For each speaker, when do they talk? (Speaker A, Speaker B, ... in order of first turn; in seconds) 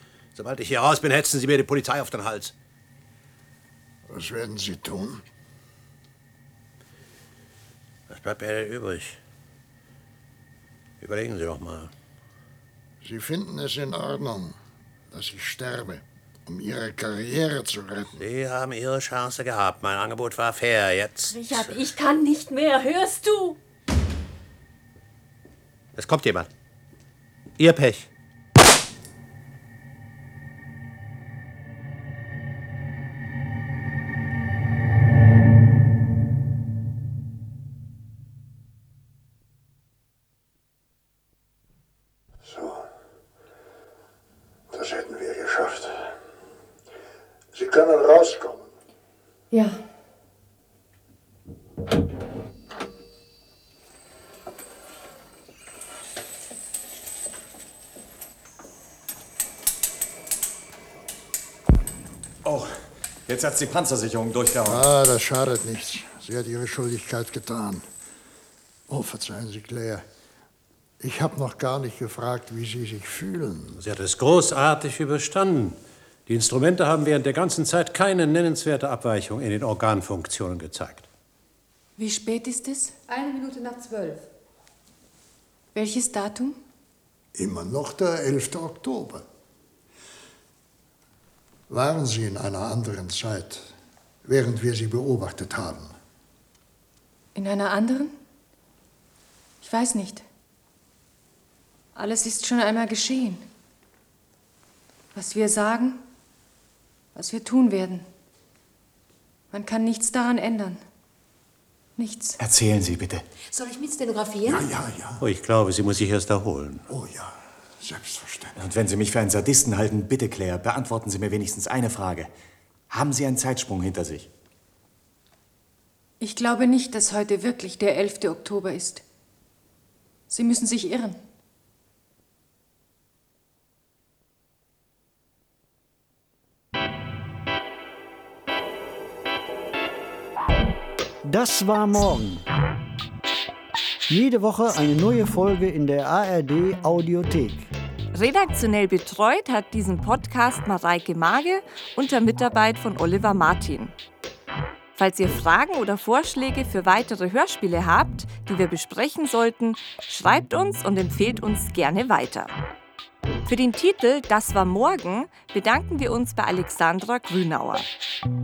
Speaker A: 0.3-2.5, 8.1-9.2, 11.0-11.9, 18.2-21.9, 26.0-26.5, 27.6-28.1, 73.8-81.1, 115.2-116.9
Speaker B: 4.1-5.2, 13.0-14.6, 15.1-18.2, 42.5-42.9, 44.7-46.1, 47.5-48.7, 64.7-67.8, 68.9-70.0, 71.0-73.8, 87.3-89.3, 91.7-93.7, 94.2-95.9, 114.5-115.2, 116.9-118.6
Speaker C: 21.3-23.6, 49.5-49.8, 82.0-83.0, 85.7-86.6, 97.3-98.1, 99.6-100.2, 102.0-103.5, 105.1-106.0, 107.1-108.1, 109.5-110.8, 112.0-112.4, 126.2-129.0, 130.3-131.2
Speaker D: 62.5-62.7, 63.3-64.9, 112.4-113.3, 118.6-122.3, 122.9-124.3
Speaker E: 83.1-84.2, 113.5-114.7
Speaker F: 141.2-142.5, 144.1-147.7
Speaker G: 148.1-153.9, 155.0-162.5, 163.5-167.9